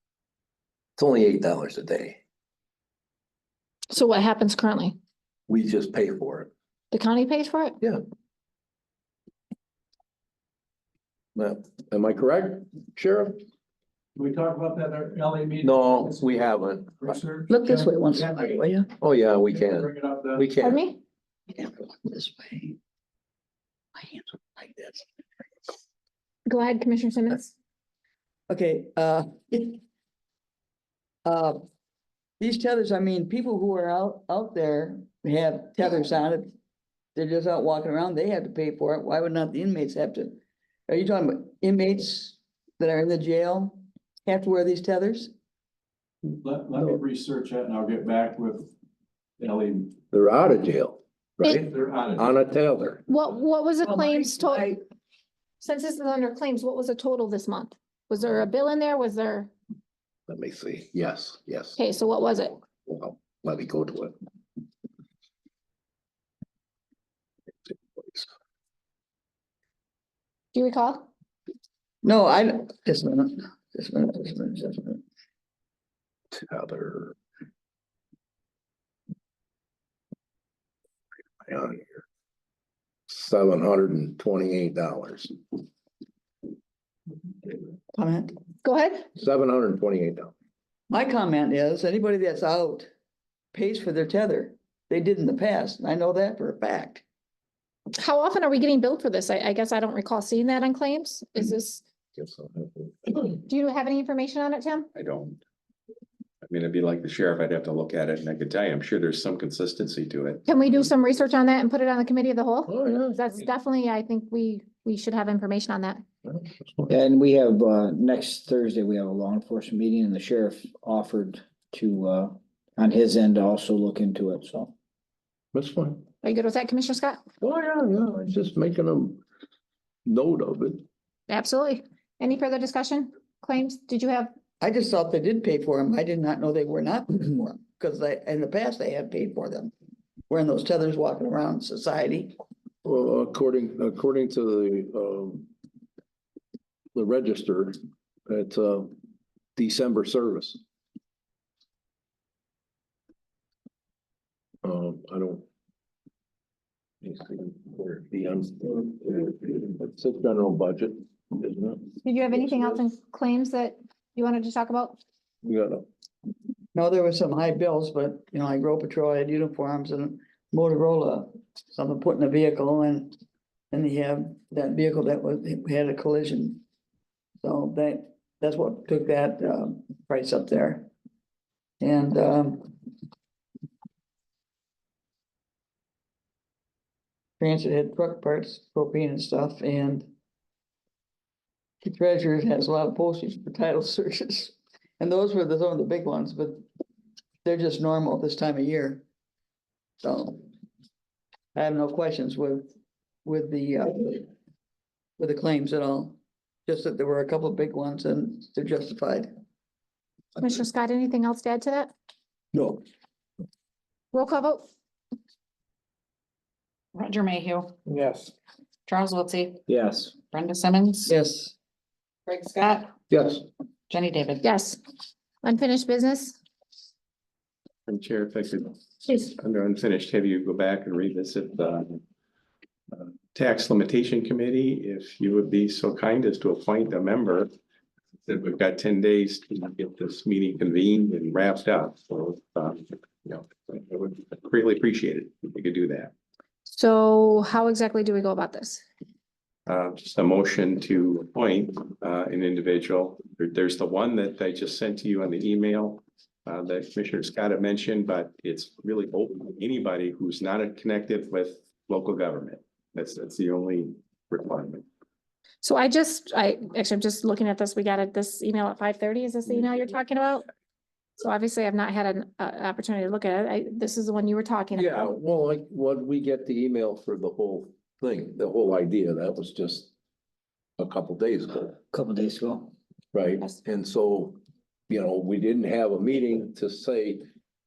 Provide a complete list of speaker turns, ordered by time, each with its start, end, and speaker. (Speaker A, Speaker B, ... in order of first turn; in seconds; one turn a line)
Speaker A: 1.0-2.2
Speaker B: 3.9-5.0
Speaker A: 5.5-6.5
Speaker B: 6.9-7.8
Speaker A: 11.4-13.4
Speaker C: 14.2-16.1
Speaker A: 15.6-17.2
Speaker C: 17.0-18.4
Speaker D: 17.5-18.9
Speaker A: 19.0-20.8
Speaker C: 19.6-20.4
Speaker B: 20.6-21.0
Speaker D: 21.5-22.8
Speaker D: 23.9-25.0
Speaker B: 26.4-27.5
Speaker D: 28.5-29.8
Speaker D: 31.2-31.6
Speaker D: 32.4-36.5
Speaker D: 37.1-45.3
Speaker C: 46.3-48.7
Speaker C: 49.4-50.0
Speaker A: 50.1-53.0
Speaker C: 51.6-52.3
Speaker B: 53.1-54.8
Speaker D: 53.8-54.8
Speaker B: 55.6-59.5
Speaker A: 60.3-61.8
Speaker B: 61.8-62.6
Speaker A: 62.6-64.2
Speaker A: 67.9-68.3
Speaker B: 70.5-71.1
Speaker D: 72.0-75.0
Speaker A: 76.3-77.2
Speaker A: 81.4-82.0
Speaker A: 83.1-85.3
Speaker D: 87.9-88.4
Speaker B: 88.6-89.1
Speaker A: 89.2-90.3
Speaker D: 90.9-92.9
Speaker D: 93.5-97.0
Speaker B: 97.9-101.8
Speaker A: 102.2-103.4
Speaker B: 103.3-104.9
Speaker E: 104.9-105.4
Speaker E: 106.4-110.5
Speaker B: 110.5-116.0
Speaker A: 112.7-113.2
Speaker A: 116.2-116.9
Speaker F: 116.9-124.7
Speaker A: 125.5-126.0
Speaker B: 126.2-127.2
Speaker A: 127.4-129.2
Speaker A: 130.1-130.8
Speaker B: 131.3-134.3
Speaker D: 134.6-139.7
Speaker D: 140.3-142.4
Speaker A: 142.8-145.5
Speaker A: 146.9-148.9
Speaker A: 149.6-150.6
Speaker A: 154.6-155.4
Speaker A: 157.0-162.8
Speaker B: 162.0-165.0
Speaker A: 165.4-165.8
Speaker D: 166.8-173.2
Speaker D: 173.7-176.6
Speaker D: 177.4-180.9
Speaker D: 181.8-182.7
Speaker D: 187.4-190.1
Speaker D: 191.8-196.6
Speaker D: 197.4-199.0
Speaker D: 200.0-200.5
Speaker D: 201.5-202.7
Speaker D: 203.2-204.3
Speaker D: 205.2-209.3
Speaker B: 210.4-211.9
Speaker A: 212.5-212.8
Speaker B: 214.1-214.6
Speaker G: 216.9-218.3
Speaker G: 218.9-219.6
Speaker F: 219.7-220.1
Speaker G: 220.1-221.1
Speaker D: 221.1-221.5
Speaker G: 222.2-222.9
Speaker A: 223.1-223.4
Speaker G: 223.9-224.4
Speaker B: 224.4-224.8
Speaker B: 225.4-226.4
Speaker E: 227.9-232.0
Speaker E: 232.9-237.5
Speaker E: 238.2-246.1
Speaker B: 246.7-248.8
Speaker E: 249.7-264.9
Speaker B: 265.6-270.4
Speaker B: 271.2-275.1
Speaker A: 274.7-279.9
Speaker A: 280.8-281.8
Speaker F: 281.9-282.7
Speaker A: 283.1-284.4
Speaker A: 284.9-287.2